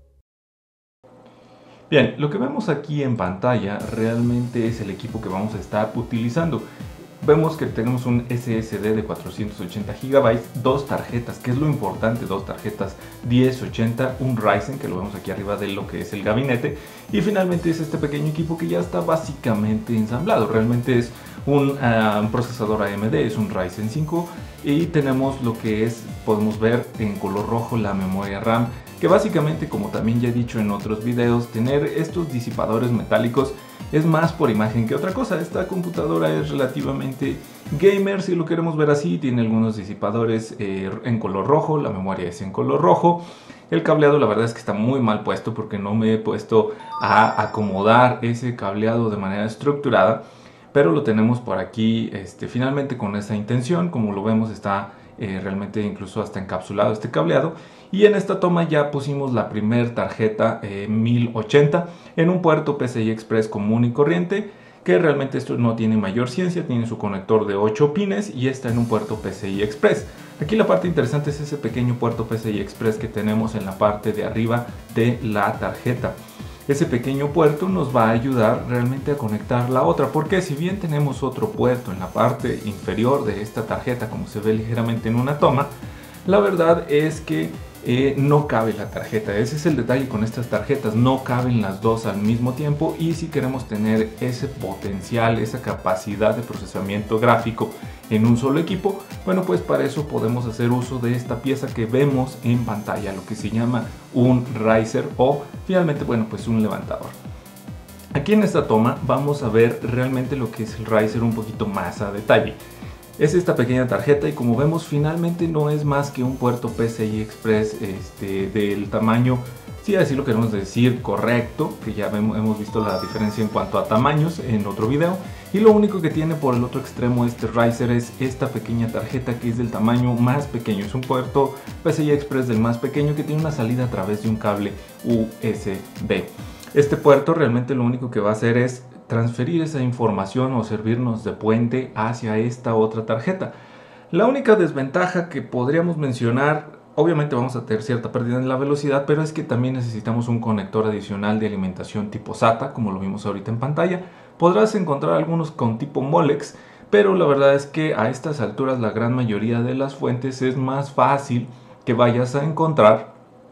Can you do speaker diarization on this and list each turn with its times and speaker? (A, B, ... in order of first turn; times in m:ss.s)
0:01.9-0:06.6 A
0:07.2-0:50.2 A
0:50.7-1:16.2 A
1:16.7-1:25.7 A
1:26.2-1:47.1 A
1:48.1-1:52.6 A
1:53.2-2:23.5 A
2:24.1-2:43.1 A